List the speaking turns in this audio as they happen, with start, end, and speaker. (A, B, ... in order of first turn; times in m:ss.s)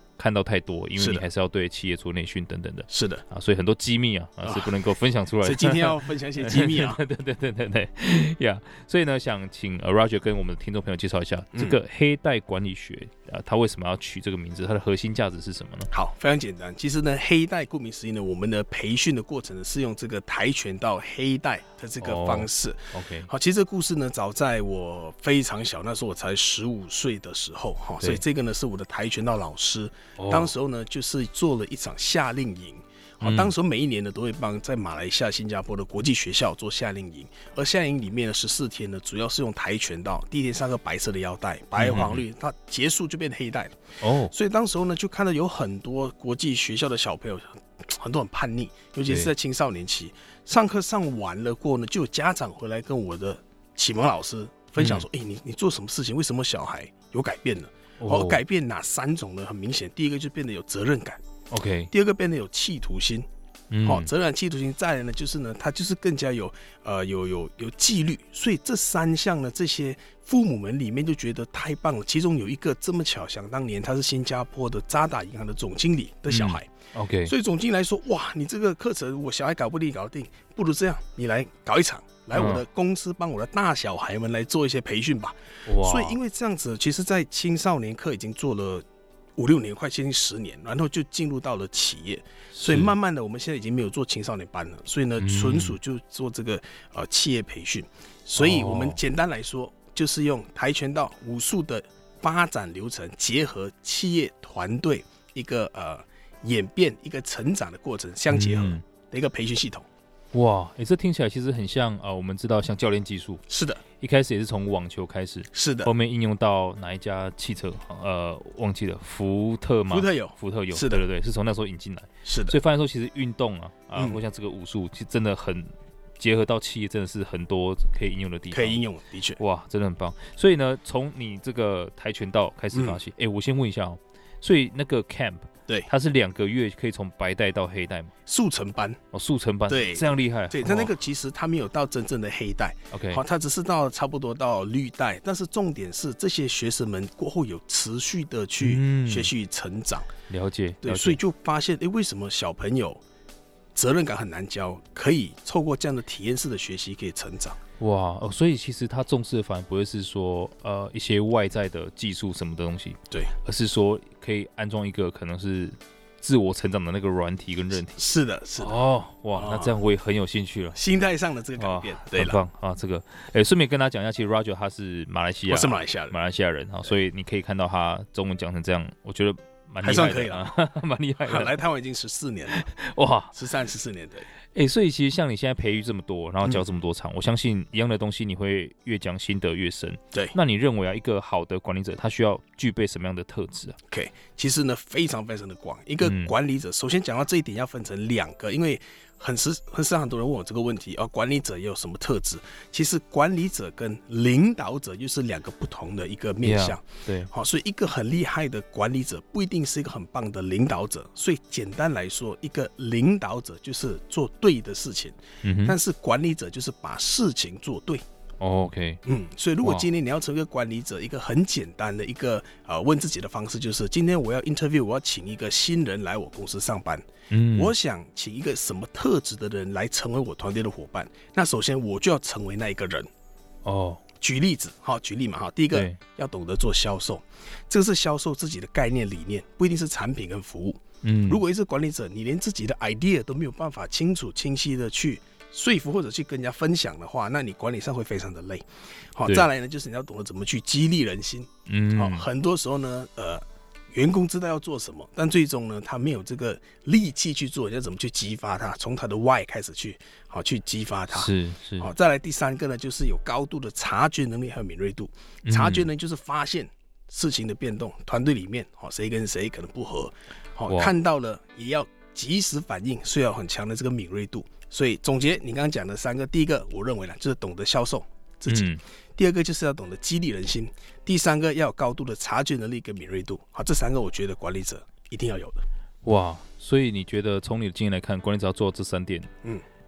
0:00.2-0:15.9 A
0:01.0-0:01.2 B
0:02.9-0:03.2 B
0:04.4-0:04.7 B
0:05.4-0:07.0 B
0:11.5-0:11.8 B
0:15.9-0:43.8 B
0:22.0-0:23.3 A
0:30.2-0:30.5 A
0:33.2-0:33.5 A
0:41.8-0:42.2 A
0:44.0-0:44.3 A
0:44.3-1:01.2 B
0:54.8-0:55.0 A
0:58.0-0:58.4 A
1:01.5-1:01.9 A
1:01.9-1:03.3 B
1:03.7-1:04.1 A
1:03.8-1:16.7 B
1:16.3-1:17.3 A
1:17.2-1:28.8 B
1:22.4-1:22.6 A
1:25.6-1:26.2 A
1:29.4-1:49.9 B
1:32.5-1:32.9 A
1:35.2-1:35.8 A
1:38.4-1:39.0 A
1:48.3-1:48.8 A
1:50.3-1:53.4 A
1:53.5-1:53.8 B
1:54.0-2:08.8 A
1:55.5-1:55.9 B
1:59.9-2:01.0 B
2:02.2-2:02.6 B
2:04.0-2:04.2 B
2:08.5-2:09.4 B
2:09.4-2:18.1 A
2:12.7-2:13.0 B
2:18.3-2:19.0 B
2:19.1-2:20.9 A
2:19.7-2:30.1 B
2:22.9-2:23.2 A
2:28.6-2:29.3 A
2:30.3-2:31.2 A
2:30.8-2:33.0 B
2:33.8-2:37.6 B
2:37.8-2:48.0 A
2:48.0-2:48.7 B
2:48.6-2:50.8 A
2:49.4-2:49.8 B
2:50.8-2:52.4 B
2:51.6-3:01.6 A
2:55.5-2:56.2 B
2:59.8-3:00.5 B
3:01.2-3:02.7 B
3:02.5-3:03.4 A
3:03.3-3:04.3 B
3:04.6-3:13.8 A
3:13.9-3:38.0 B
3:16.0-3:16.3 A
3:26.4-3:27.3 A
3:35.4-3:35.8 A
3:38.4-3:39.0 A
3:39.0-3:53.1 B
3:47.3-3:47.7 A
3:53.6-3:54.0 A
3:54.2-4:45.6 B
3:55.7-3:56.0 A
4:01.0-4:01.4 A
4:11.7-4:12.3 A
4:21.1-4:21.9 A
4:25.4-4:25.9 A
4:38.5-4:38.8 A
4:46.0-4:49.3 A